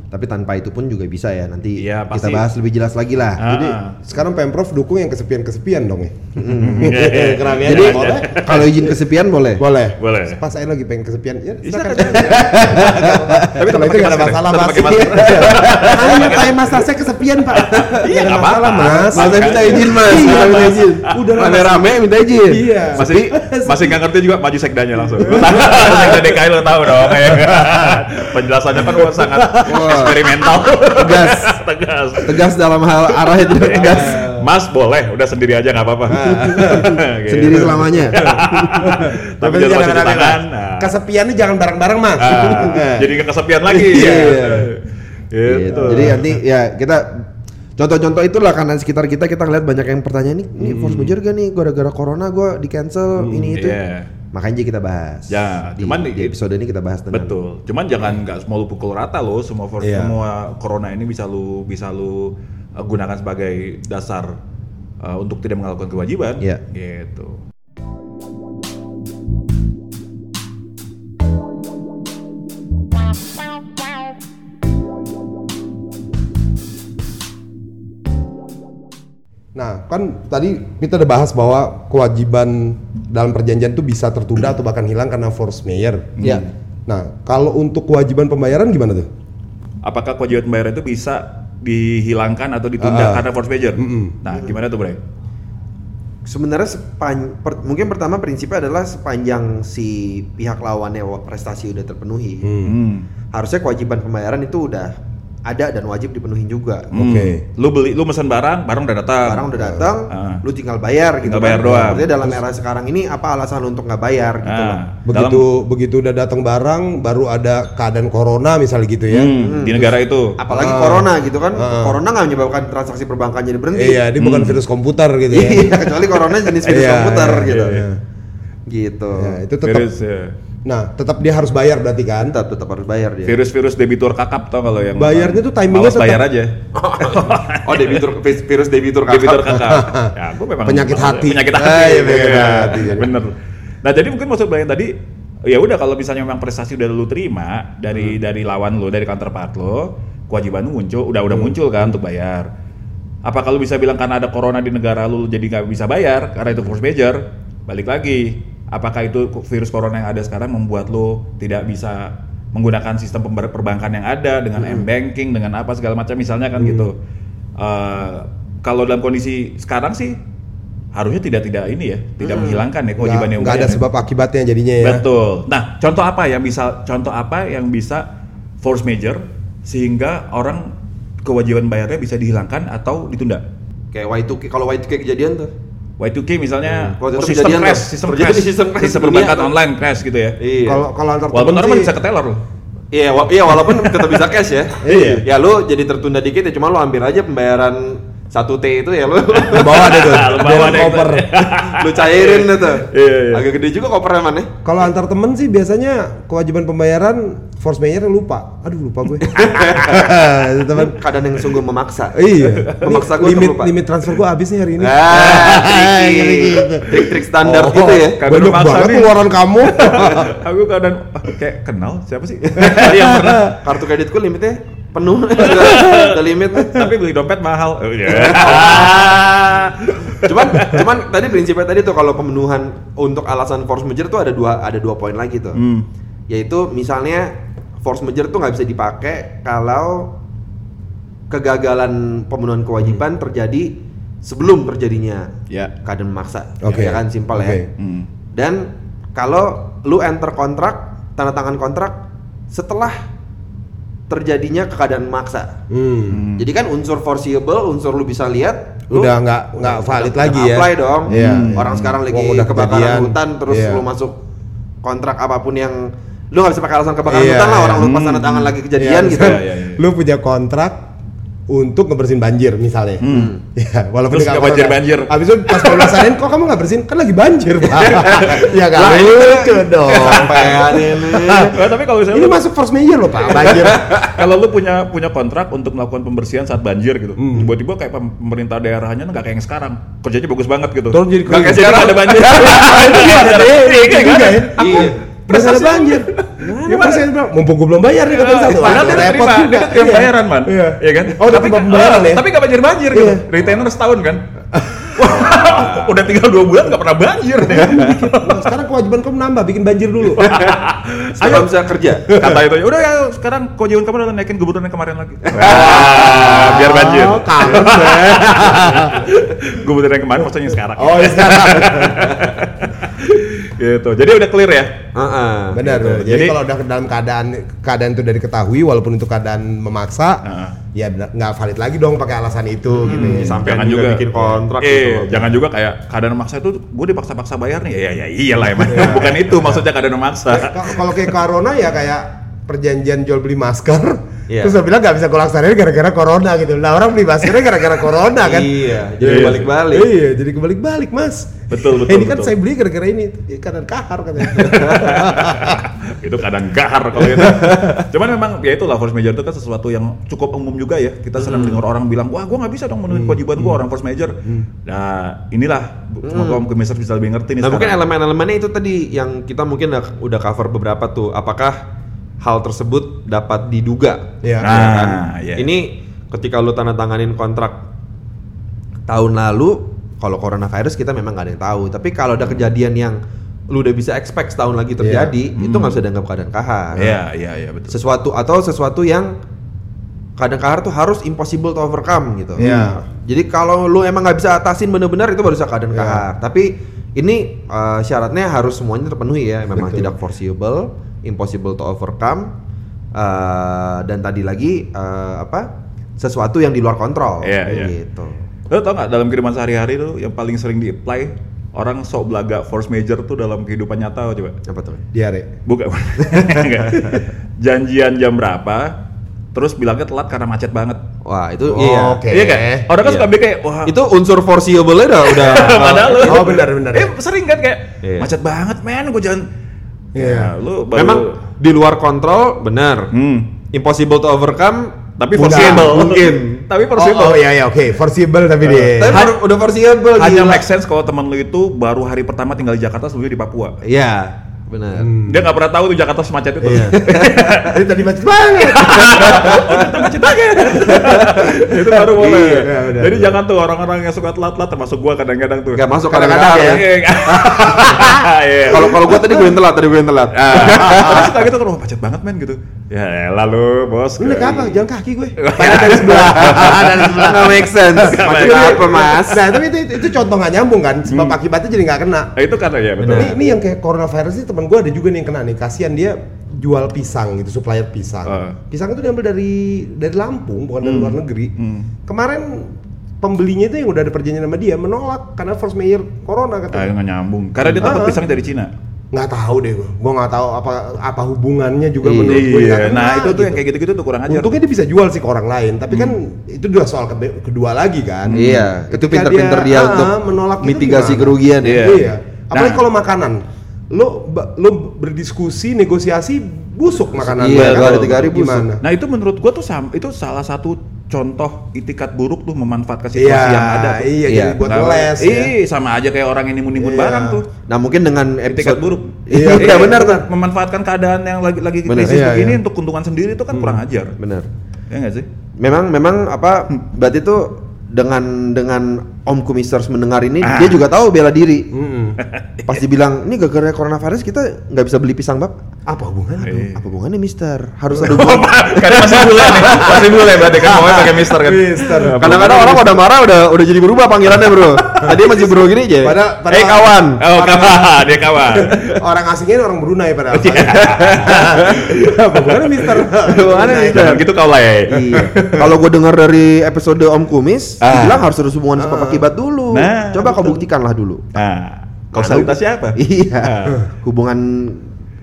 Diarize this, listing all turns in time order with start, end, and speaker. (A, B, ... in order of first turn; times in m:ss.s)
0:00.1-0:03.7 A
0:01.8-0:02.5 B
0:03.4-0:04.0 B
0:04.0-0:08.7 C
0:06.4-0:09.6 A
0:06.6-0:08.8 B
0:09.6-0:21.9 C
0:10.0-0:10.4 B
0:11.6-0:16.8 B
0:12.1-0:13.7 A
0:14.6-0:16.8 A
0:17.5-0:21.2 B
0:18.8-0:23.3 A
0:22.5-0:24.0 C
0:23.0-0:32.5 B
0:25.1-0:26.2 C
0:25.6-0:26.2 A
0:29.6-0:30.2 A
0:30.9-0:31.5 A
0:32.2-0:34.2 A
0:33.3-0:40.9 B
0:33.8-0:34.5 C
0:36.1-0:37.0 C
0:36.3-0:38.7 A
0:38.1-0:43.2 C
0:42.2-0:46.2 B
0:43.7-0:44.7 C
0:43.8-0:44.7 A
0:45.4-0:53.8 A
0:45.7-0:46.3 C
0:53.5-0:54.1 B
0:54.3-0:57.4 A
0:55.3-0:56.3 B
0:57.1-1:04.3 B
0:59.8-1:00.2 C
1:05.0-1:07.4 B
1:19.5-1:29.1 C
1:26.2-1:26.5 B
1:29.8-1:35.0 B
1:32.8-1:34.2 C
1:36.2-1:42.6 A
1:42.4-1:42.7 C
1:42.6-1:43.1 B
1:43.3-1:44.9 A
1:45.4-1:47.0 A
1:46.9-1:49.5 B
1:46.9-1:47.4 C
1:49.2-1:54.8 A
1:49.6-1:49.8 C
1:50.1-1:50.4 B
1:51.2-1:52.0 B
1:51.6-1:52.4 C
1:54.4-1:55.5 B
1:55.0-1:59.4 C
1:59.1-2:00.4 B
1:59.3-2:04.0 A
2:00.5-2:02.0 C
2:03.7-2:08.0 C
2:04.2-2:04.6 B
2:05.3-2:07.8 A
2:07.3-2:07.8 B
2:08.7-2:09.4 A
2:09.1-2:09.9 C
2:09.6-2:10.3 B
2:10.6-2:12.3 C
2:12.2-2:13.4 A
2:13.2-2:18.1 B
2:14.9-2:16.2 C
2:16.7-2:19.6 A
2:19.1-2:32.5 B
2:19.5-2:23.1 C
2:33.2-2:47.0 B
2:44.6-2:44.9 A
2:46.6-2:46.9 C
2:47.6-2:50.2 B
2:50.9-2:53.8 B
2:52.2-2:52.6 A
2:53.0-2:55.0 C
2:54.8-2:58.0 B
2:58.6-3:03.4 B
3:03.9-3:05.5 A
3:06.0-3:10.4 B
3:06.7-3:09.5 A
3:10.4-3:10.8 A
3:10.6-3:11.9 C
3:11.3-3:12.4 B
3:12.9-3:20.2 A
3:13.7-3:14.0 B
3:14.8-3:15.2 C
3:14.8-3:15.2 B
3:19.5-3:21.4 C
3:19.6-3:23.4 B
3:21.6-3:24.5 A
3:24.6-3:31.0 C
3:29.2-3:30.2 A
3:30.7-3:33.8 A
3:32.1-3:40.4 C
3:34.8-3:38.2 A
3:38.0-3:43.6 B
3:42.6-3:46.9 A
3:42.6-3:43.4 C
3:45.4-3:50.8 B
3:48.1-3:49.3 A
3:50.2-3:55.6 A
3:55.6-3:55.9 B
3:56.3-4:00.2 A
4:01.3-4:07.7 A
4:06.6-4:07.7 C
4:07.8-4:08.1 B
4:08.3-4:13.0 A
4:14.1-4:15.6 A
4:15.7-4:16.2 C
4:16.1-4:16.4 B
4:16.4-4:24.2 A
4:18.9-4:23.8 C
4:21.1-4:21.9 B
4:24.8-4:29.4 A
4:27.1-4:27.9 C
4:27.8-4:29.8 B
4:28.8-4:30.9 C
4:31.5-4:40.6 C
4:33.0-4:33.3 B
4:33.1-4:33.4 A
4:34.1-4:36.0 B
4:37.9-4:41.6 A
4:38.0-4:38.4 B
4:39.9-4:42.4 B
4:42.1-4:44.0 C
4:43.3-4:57.1 B
4:43.4-4:44.2 A
4:47.2-4:47.5 C
4:50.9-5:02.2 C
4:51.2-4:53.2 A
4:54.6-4:55.0 A
4:56.4-4:56.9 A
4:58.0-5:04.2 B
4:58.6-4:59.0 A
5:02.9-5:03.4 C
5:04.5-5:05.1 C
5:04.8-5:08.4 B
5:05.2-5:05.9 A
5:07.4-5:10.4 C
5:10.2-5:11.5 B
5:11.2-5:12.2 A
5:12.1-5:12.4 C
5:12.1-5:24.8 B
5:15.2-5:16.7 A
5:15.4-5:19.1 C
5:17.4-5:17.9 A
5:20.7-5:22.3 C
5:24.9-5:26.0 A
5:25.5-5:33.4 C
5:25.8-5:26.4 B
5:30.2-5:30.5 B
5:32.7-5:35.4 A
5:32.8-5:41.0 B
5:38.6-5:39.6 C
5:40.3-5:55.6 C
5:44.3-5:44.5 A
5:48.2-5:49.9 A
5:49.0-5:49.5 B
5:51.5-5:52.3 B
5:54.3-6:04.1 B
5:57.1-5:57.6 C
6:01.2-6:01.6 A
6:02.9-6:03.6 C
6:04.6-6:07.8 B
6:06.0-6:06.4 A
6:07.4-6:11.6 A
6:12.2-6:17.6 A
6:14.2-6:14.6 C
6:14.4-6:15.5 B
6:18.9-6:27.0 A
6:24.8-6:25.1 C
6:25.4-6:25.8 B
6:26.8-6:27.8 B
6:27.7-6:29.1 A
6:30.2-6:42.3 A
6:32.4-6:32.8 C
6:35.7-6:36.0 C
6:39.5-6:39.9 C
6:42.9-6:48.2 A
6:47.2-6:47.7 B
6:48.5-6:54.4 B
6:54.5-6:54.8 A
6:54.9-6:55.3 C
6:55.4-6:58.8 B
6:56.2-6:57.0 C
6:59.3-7:00.8 B
7:01.0-7:02.0 A
7:01.5-7:02.7 C
7:02.1-7:03.7 B
7:02.8-7:03.1 A
7:03.6-7:06.3 A
7:05.0-7:09.3 B
7:05.4-7:06.9 C
7:07.8-7:08.1 A
7:09.9-7:11.2 B
7:09.9-7:10.3 C
7:10.7-7:12.9 A
7:12.9-7:13.3 B
7:13.5-7:16.5 A
7:15.0-7:17.2 B
7:15.2-7:16.0 C
7:16.7-7:19.0 C
7:18.4-7:20.4 A
7:20.0-7:23.6 B
7:23.6-7:24.9 A
7:24.8-7:25.3 C
7:25.0-7:27.7 B
7:26.4-7:29.7 C
7:26.5-7:27.1 A
7:28.4-7:38.9 B
7:29.0-7:29.4 A
7:30.7-7:33.2 C
7:31.9-7:32.5 A
7:35.5-7:37.8 A
7:35.9-7:36.6 C
7:38.5-7:41.2 A
7:38.6-7:39.4 C
7:40.1-7:44.4 B
7:40.6-7:41.1 C
7:44.0-7:52.1 C
7:44.2-7:44.5 A
7:45.2-7:49.0 B
7:45.4-7:49.2 A
7:50.9-7:51.2 B
7:52.2-7:53.2 B
7:52.8-7:53.2 A
7:52.9-8:01.3 C
7:58.1-7:58.4 B
8:00.6-8:01.7 B
8:01.8-8:06.7 C
8:06.5-8:08.5 B
8:07.5-8:08.0 C
8:08.9-8:13.4 C
8:11.8-8:12.3 A
8:12.0-8:14.3 B
8:14.1-8:28.6 C
8:15.7-8:16.0 B
8:18.0-8:18.5 B
8:18.1-8:21.8 A
8:21.4-8:22.6 B
8:27.2-8:28.5 A
8:27.2-8:28.0 B
8:28.6-8:37.3 B
8:32.9-8:35.3 C
8:34.1-8:34.4 A
8:36.6-8:37.2 C
8:37.5-8:40.0 A
8:38.3-8:44.0 B
8:39.1-8:40.0 C
8:41.6-8:42.0 A
8:41.8-8:42.4 C
8:43.3-8:43.6 C
8:44.0-8:44.3 A
8:44.7-8:45.1 B
8:45.4-8:51.5 A
8:50.2-8:50.6 B
8:51.5-8:52.0 C
8:52.0-8:52.6 B
8:52.4-8:55.4 A
8:55.6-8:56.5 C
8:56.2-8:56.6 B
8:56.5-9:01.1 A
8:57.7-9:02.7 B
9:00.4-9:02.5 C
9:02.0-9:07.0 A
9:04.8-9:05.1 C
9:05.8-9:07.8 C
9:07.0-9:08.8 B
9:08.3-9:14.0 C
9:10.1-9:12.9 B
9:13.0-9:14.0 A
9:13.4-9:15.5 B
9:14.7-9:21.0 A
9:17.6-9:18.0 B
9:17.6-9:18.0 C
9:18.6-9:19.1 C
9:19.5-9:20.4 B
9:21.1-9:23.6 B
9:21.9-9:24.7 A